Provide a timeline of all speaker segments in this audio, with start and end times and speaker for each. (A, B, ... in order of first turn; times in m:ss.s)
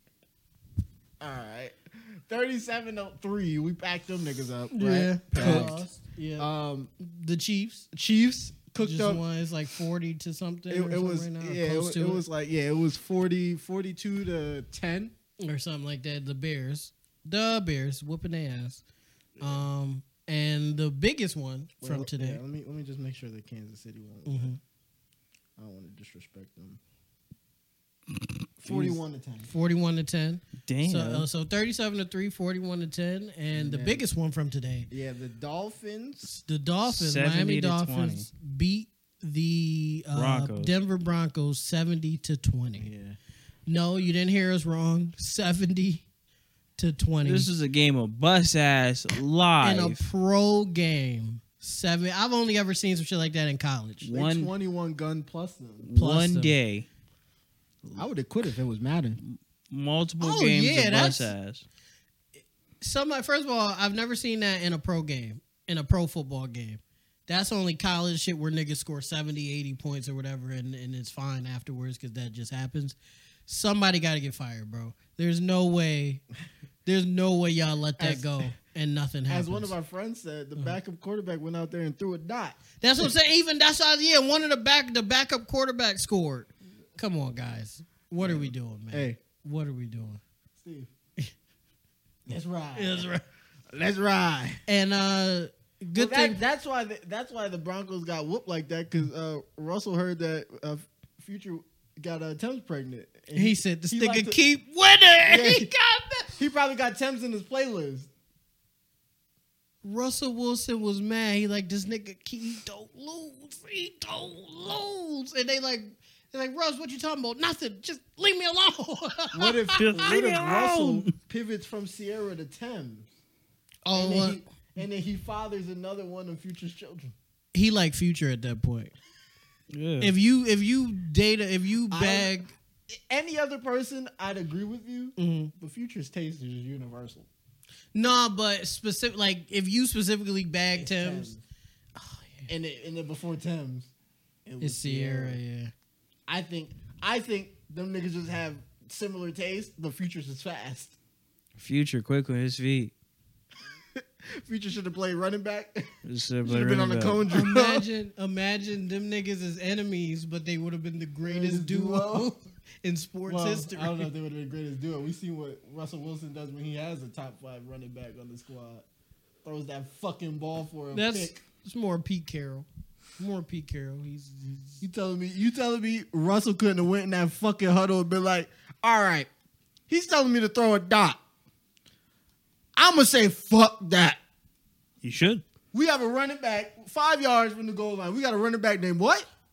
0:01.2-0:05.8 A
0:04.7-0:07.9 B
0:05.4-0:05.8 C
0:06.4-0:06.9 A
0:07.9-0:09.2 A
0:08.8-0:12.2 B
0:10.7-0:15.1 A
0:15.4-0:18.8 B
0:19.4-0:19.6 A
0:19.4-0:22.4 B
0:21.8-0:24.6 A
0:24.2-0:24.6 B
0:25.6-0:26.8 A
0:28.6-0:29.5 A
0:28.6-0:34.9 B
0:30.6-0:31.3 C
0:33.5-0:34.0 A
0:34.9-0:36.3 A
0:36.3-0:42.9 B
0:36.9-0:38.3 C
0:40.1-0:40.7 C
0:42.8-0:43.2 A
0:43.7-0:46.0 B
0:46.8-0:47.5 B
0:47.2-0:50.0 C
0:49.6-0:54.1 B
0:54.0-0:54.5 C
0:54.1-0:55.9 A
0:55.8-0:56.9 C
0:56.0-0:56.5 B
0:58.0-0:59.2 A
0:59.2-1:01.6 C
1:00.2-1:01.3 B
1:02.8-1:13.0 B
1:13.5-1:16.2 B
1:16.8-1:19.7 B
1:18.0-1:18.5 A
1:19.3-1:22.6 A
1:22.8-1:30.2 B
1:28.2-1:29.2 A
1:30.6-1:30.9 A
1:32.3-1:33.1 A
1:32.7-1:33.2 B
1:33.7-1:34.6 A
1:34.7-1:36.4 B
1:35.9-1:44.4 A
1:43.3-1:46.4 B
1:45.3-1:45.7 A
1:46.4-1:48.1 A
1:49.8-1:59.8 B
1:59.3-2:03.1 A
1:59.8-2:01.1 C
2:03.8-2:04.4 B
2:03.9-2:07.1 A
2:07.5-2:08.9 B
2:09.7-2:10.1 C
2:10.0-2:12.5 B
2:11.9-2:12.3 A
2:12.9-2:17.3 A
2:15.2-2:15.5 B
2:17.9-2:21.3 B
2:20.8-2:21.4 A
2:22.0-2:22.5 B
2:22.5-2:23.9 A
2:24.4-2:25.4 A
2:24.6-2:25.7 B
2:26.3-2:31.0 A
2:31.6-2:32.9 C
2:34.0-2:35.9 A
2:36.0-2:37.2 C
2:36.4-2:37.8 A
2:37.3-2:44.1 B
2:41.2-2:42.3 A
2:43.3-2:48.8 A
2:49.4-2:51.4 A
2:50.9-2:52.6 B
2:53.2-2:54.8 B
2:54.8-2:59.3 A
2:59.9-3:01.2 A
3:02.8-3:04.2 A
3:05.0-3:05.4 C
3:05.7-3:09.3 A